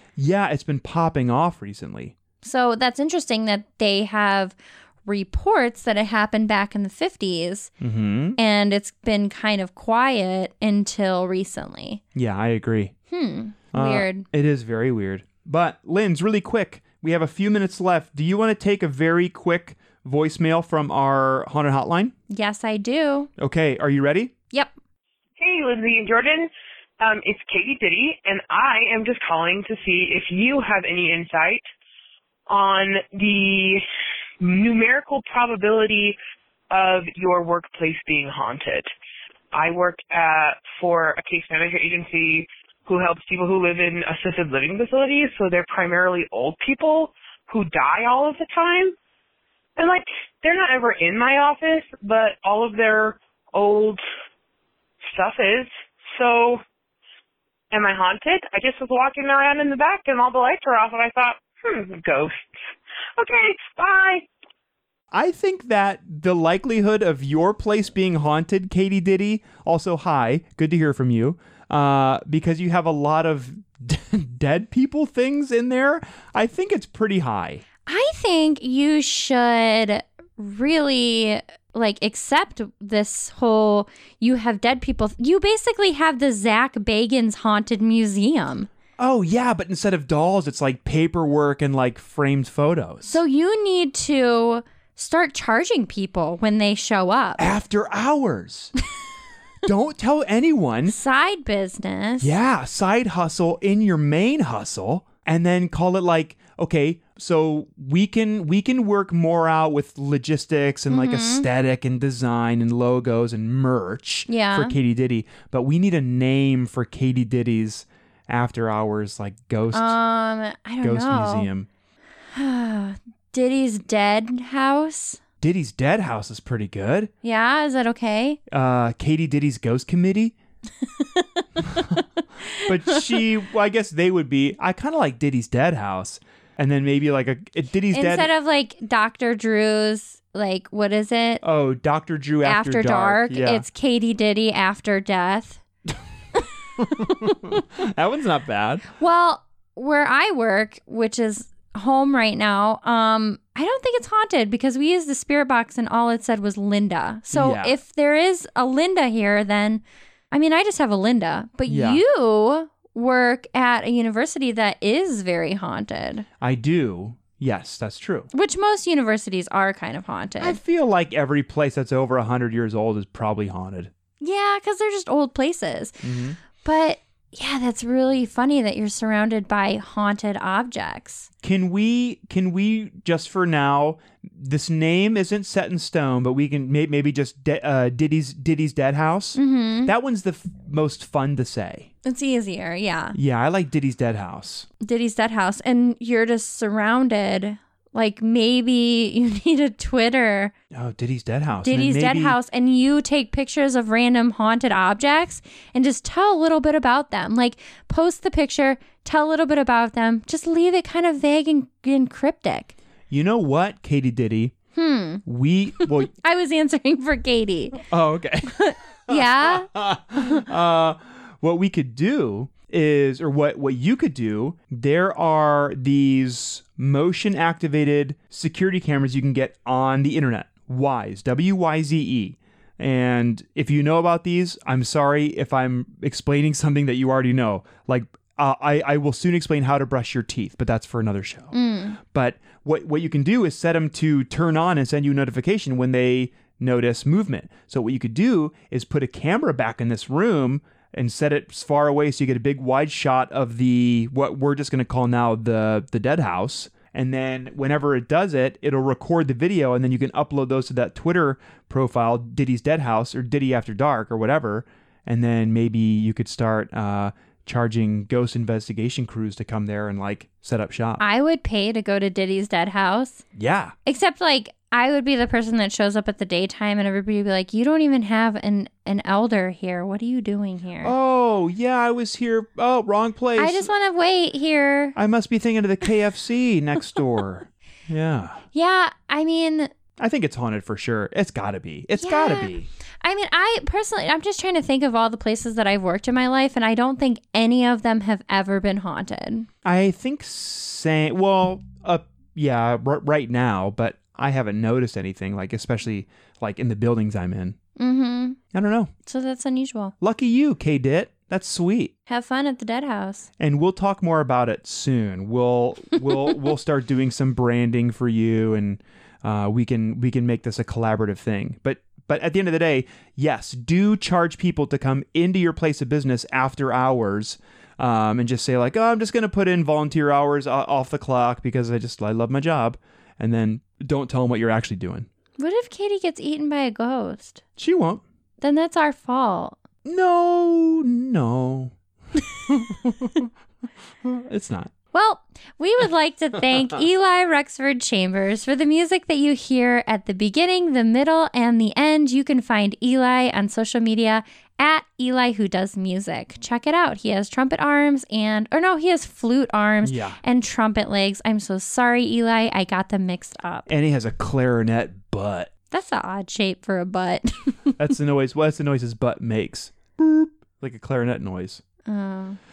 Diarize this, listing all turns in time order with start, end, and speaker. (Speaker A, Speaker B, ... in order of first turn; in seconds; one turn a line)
Speaker A: 0.2-2.2
Speaker B: 2.4-7.7
Speaker A: 7.8-8.4
Speaker B: 8.4-12.0
Speaker A: 12.2-12.9
Speaker B: 13.1-14.3
Speaker A: 13.7-22.1
Speaker B: 22.3-23.3
Speaker A: 23.4-24.3
Speaker C: 25.4-31.7
Speaker C: 32.5-33.8
Speaker C: 34.4-36.2
Speaker C: 36.7-38.9
Speaker C: 39.5-49.0
Speaker C: 49.8-54.0
Speaker C: 55.1-56.6
Speaker C: 57.7-62.5
Speaker C: 63.2-64.3
Speaker A: 65.1-77.6
Speaker B: 77.9-88.7
Speaker A: 89.0-93.2
Speaker B: 93.0-97.5
Speaker A: 97.4-98.7
Speaker A: 99.6-101.0
Speaker B: 100.9-102.3
Speaker A: 102.2-120.0
Speaker B: 110.9-111.5
Speaker B: 114.3-114.8
Speaker B: 119.7-121.5
Speaker A: 120.8-121.7
Speaker B: 122.3-125.2
Speaker A: 125.4-127.1
Speaker B: 127.2-128.4
Speaker A: 128.5-130.4
Speaker B: 130.8-131.8
Speaker A: 131.7-132.0
Speaker B: 132.5-133.1
Speaker A: 132.6-138.3
Speaker B: 137.9-141.4
Speaker A: 141.4-143.7
Speaker B: 142.4-145.6
Speaker A: 146.8-148.9
Speaker B: 149.0-166.3
Speaker A: 157.3-157.8
Speaker A: 161.7-162.0
Speaker A: 166.4-168.3
Speaker B: 168.3-170.6
Speaker A: 170.4-173.9
Speaker B: 174.2-176.0
Speaker A: 176.0-176.4
Speaker B: 176.6-181.3
Speaker A: 181.4-191.9
Speaker B: 189.3-189.9
Speaker B: 192.1-193.2
Speaker A: 193.2-194.7
Speaker B: 194.8-200.5
Speaker A: 200.7-202.4
Speaker B: 201.6-212.8
Speaker A: 213.1-214.5
Speaker B: 214.8-215.2
Speaker A: 215.2-216.1
Speaker B: 216.1-217.8
Speaker A: 217.9-271.0
Speaker B: 218.6-220.4
Speaker B: 241.5-242.0
Speaker B: 271.0-273.2
Speaker A: 273.4-273.8
Speaker B: 273.9-280.9
Speaker A: 280.8-283.7
Speaker B: 283.4-285.0
Speaker A: 285.0-288.4
Speaker B: 288.5-289.7
Speaker A: 290.0-292.7
Speaker B: 292.0-292.5
Speaker B: 293.0-299.5
Speaker A: 299.6-307.6
Speaker B: 307.8-308.4
Speaker A: 308.5-308.9
Speaker B: 309.1-309.9
Speaker A: 310.0-311.9
Speaker B: 312.1-313.3
Speaker A: 313.4-335.1
Speaker B: 335.4-337.4
Speaker A: 337.6-338.0
Speaker B: 338.4-339.6
Speaker A: 339.9-343.3
Speaker A: 344.0-344.7
Speaker B: 344.9-363.7
Speaker A: 359.8-360.2
Speaker A: 363.7-365.5
Speaker B: 365.7-367.7
Speaker A: 367.8-371.6
Speaker B: 371.9-372.4